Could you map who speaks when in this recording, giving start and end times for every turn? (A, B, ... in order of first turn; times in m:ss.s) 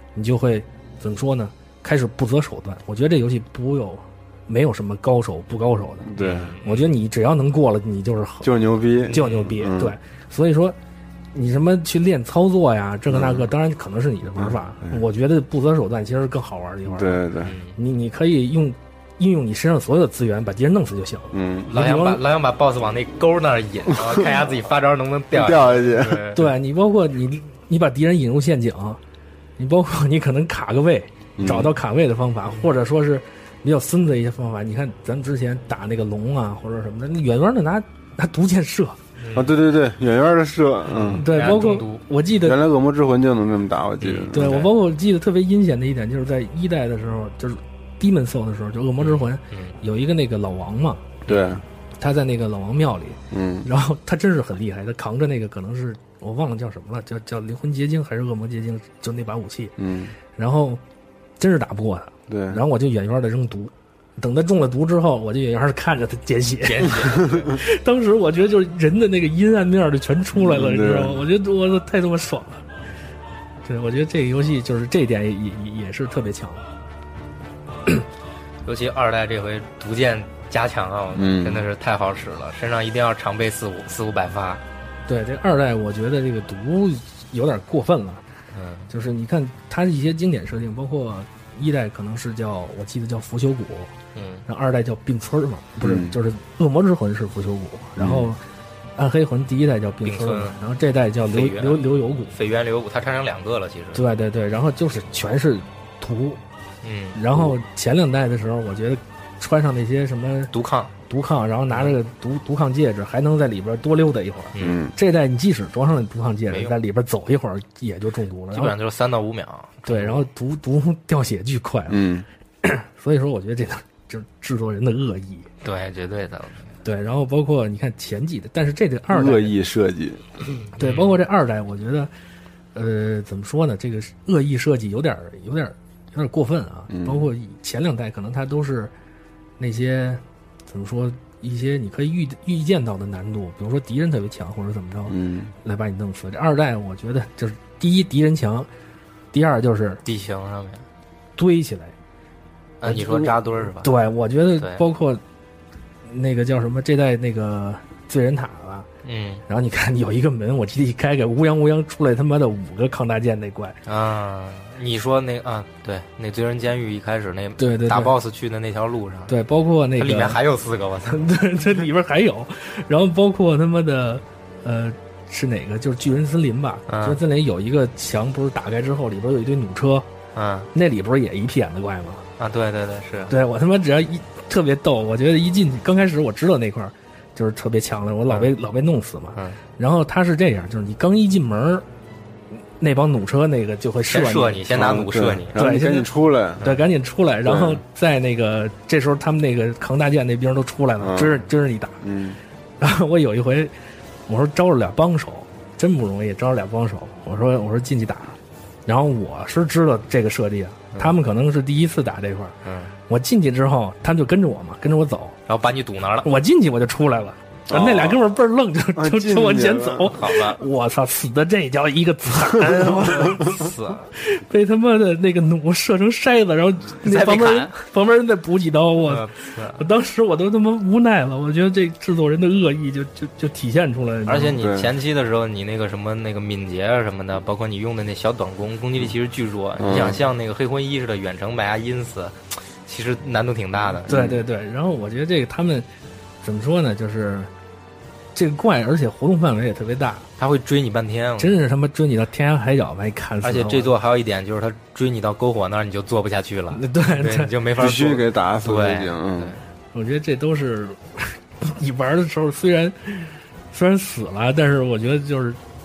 0:00.2-0:06.1 A
0:06.0-0:06.6 B
0:06.2-0:06.9 C
0:06.6-0:08.6 A
0:08.4-0:10.0 B
0:09.1-0:09.5 C
0:09.1-0:10.8 A
0:11.3-0:17.2 A
0:13.1-0:13.5 B
0:14.4-0:15.0 B
0:16.9-0:17.6 B
0:17.4-0:17.8 C
0:17.8-0:22.2 A
0:21.3-0:21.7 B
0:21.7-0:26.5 C
0:24.0-0:24.4 B
0:25.3-0:26.3 B
0:26.3-0:29.0 A
0:29.6-0:39.0 A
0:31.4-0:31.7 B
0:39.2-0:39.5 C
0:39.3-0:41.3 B
0:40.9-0:42.0 C
0:41.2-0:42.6 A
0:42.4-0:44.6 B
0:44.0-0:44.7 C
0:44.3-0:51.1 A
0:49.0-0:49.8 C
0:51.3-0:51.6 C
0:51.3-0:51.6 B
0:52.0-0:59.8 A
0:53.3-0:53.7 B
0:59.8-1:00.2 B
1:00.4-1:00.8 A
1:01.4-1:12.6 A
1:02.3-1:02.6 B
1:06.6-1:07.6 C
1:07.1-1:07.4 B
1:10.3-1:11.2 B
1:13.6-1:16.6 A
1:18.6-1:24.6 C
1:21.1-1:21.7 B
1:25.1-1:28.2 A
1:28.5-1:28.9 C
1:28.9-1:33.9 A
1:34.2-1:34.4 C
1:34.5-1:38.4 A
1:35.8-1:36.2 B
1:38.0-1:38.3 B
1:39.0-1:42.3 A
1:40.0-1:40.6 C
1:41.3-1:44.1 C
1:43.9-1:46.4 A
1:46.8-1:47.2 C
1:47.2-1:50.5 A
1:50.5-1:50.9 C
1:51.1-1:58.7 A
1:51.7-1:52.0 C
1:54.6-1:54.9 B
1:56.5-1:56.8 C
1:58.5-2:00.3 C
1:59.8-2:02.0 A
2:01.9-2:02.3 B
2:02.6-2:05.5 A
2:05.6-2:06.8 C
2:06.8-2:09.6 A
2:09.1-2:10.2 B
2:10.7-2:11.2 C
2:10.8-2:12.1 A
2:12.8-2:18.9 A
2:16.9-2:17.3 B
2:19.6-2:28.7 A
2:25.1-2:25.5 B
2:29.3-2:30.0 A
2:30.0-2:30.8 C
2:31.4-2:32.0 A
2:32.8-2:33.9 C
2:32.8-2:35.2 A
2:34.6-2:34.8 C
2:36.0-2:38.9 A
2:39.0-2:39.4 C
2:39.5-2:43.8 A
2:43.9-2:49.4 C
2:47.6-2:48.1 A
2:49.3-2:50.4 A
2:50.0-2:51.3 C
2:51.1-3:00.1 A
2:56.9-2:57.2 C
3:00.4-3:00.7 C
3:00.7-3:02.2 A
3:02.4-3:03.4 C
3:03.3-3:11.8 A
3:12.8-3:14.6 A
3:14.1-3:15.6 C
3:14.7-3:16.6 B
3:15.6-3:22.0 A
3:16.6-3:16.9 C
3:17.4-3:17.8 B
3:21.0-3:21.4 B
3:22.0-3:22.4 B
3:22.8-3:23.7 A
3:24.3-3:32.6 A
3:32.6-3:32.9 C
3:33.1-3:35.4 A
3:35.5-3:36.3 C
3:36.2-3:43.6 A
3:37.7-3:38.2 B
3:39.0-3:40.2 B
3:40.1-3:40.6 C
3:43.0-3:44.1 C
3:44.2-3:49.2 A
3:47.0-3:47.7 C
3:49.0-3:49.8 C
3:49.8-3:54.6 A
3:54.3-4:04.2 C
3:54.6-3:54.9 B
3:59.8-4:00.2 B
4:04.1-4:04.4 B
4:04.1-4:05.9 A
4:06.4-4:07.5 A
4:08.4-4:10.3 A
4:10.4-4:11.6 C
4:11.4-4:13.9 A
4:13.4-4:19.6 C
4:16.7-4:17.5 A
4:17.8-4:19.5 B
4:19.9-4:25.6 A